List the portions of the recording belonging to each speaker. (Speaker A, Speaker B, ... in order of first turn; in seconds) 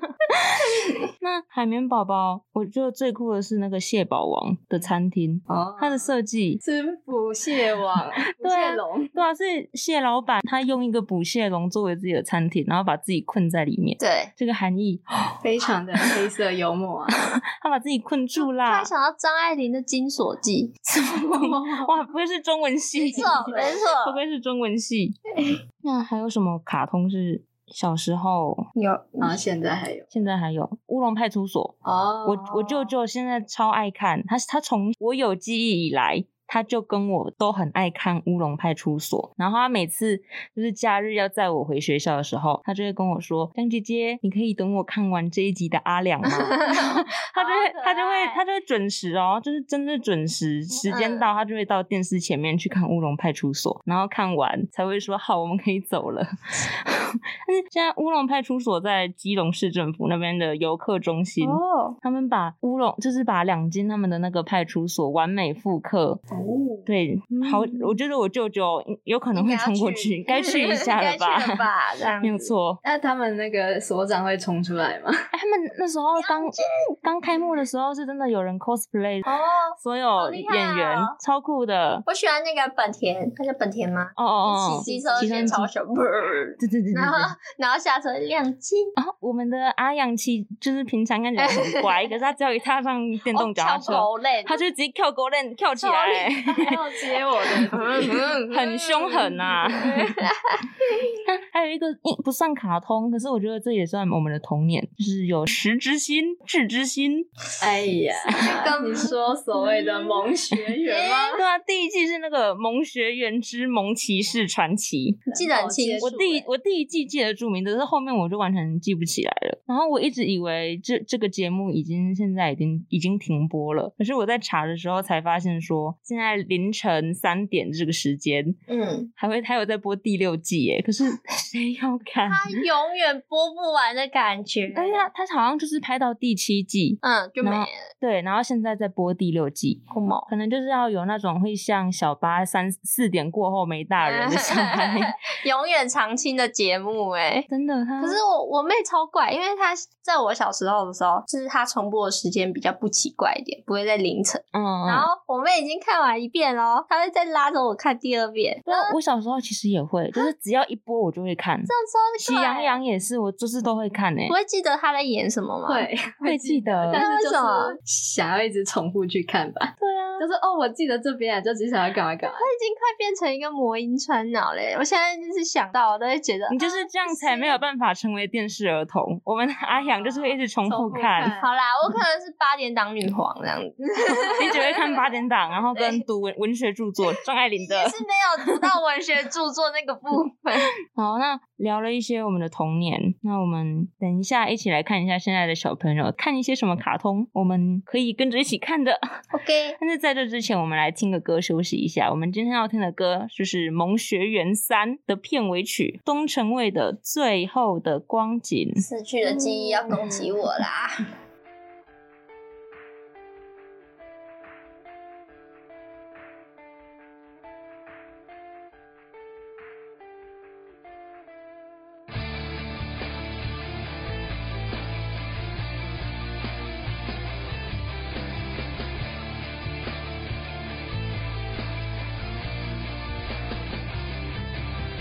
Speaker A: 0.3-6.6, 8.4-15.3, 17.3-18.9, 21.0-25.2, 25.8-28.7, 30.1-66.2, 66.8-71.6, 72.2-72.8, 75.3-79.3, 79.8-82.0, 84.2-85.7, 86.6-87.3, 89.0-96.8, 98.5-100.1, 101.2-107.3, 111.3-115.2, 116.0-128.6, 129.2-132.6, 134.7-145.1, 147.5-148.2, 154.5-155.1, 158.7-164.3, 166.2-167.0, 169.8-170.3, 176.5-181.3, 184.3-188.0, 190.9-199.0, 199.8-208.8
Speaker B: 5.5-6.1, 6.6-9.2, 15.4-17.2, 21.0-21.9, 23.0-23.7, 29.2-30.1, 66.3-66.9, 72.8-75.2, 84.7-85.6, 96.4-98.3, 107.6-111.4, 115.3-116.2, 165.7-172.5, 179.7-181.5, 209.2-210.4
Speaker C: 14.0-14.3, 18.4-20.8, 23.1-24.2, 28.8-29.4, 31.9-32.9, 46.4-48.4, 50.8-51.3, 61.4-62.0, 69.3-72.5, 76.2-76.9, 79.2-81.2, 82.0-88.9, 91.4-92.0, 93.3-94.6, 95.8-96.3, 97.7-101.2, 108.3-109.1, 110.8-111.4, 115.3-116.4, 128.7-129.1, 132.2-135.1, 137.0-137.8, 139.9-140.3, 144.0-147.5, 148.0-158.9, 161.7-162.8, 164.3-165.9, 166.9-167.8, 172.2-177.6, 181.4-184.9, 185.7-186.0, 187.6-190.7, 199.3-199.8, 208.8-210.9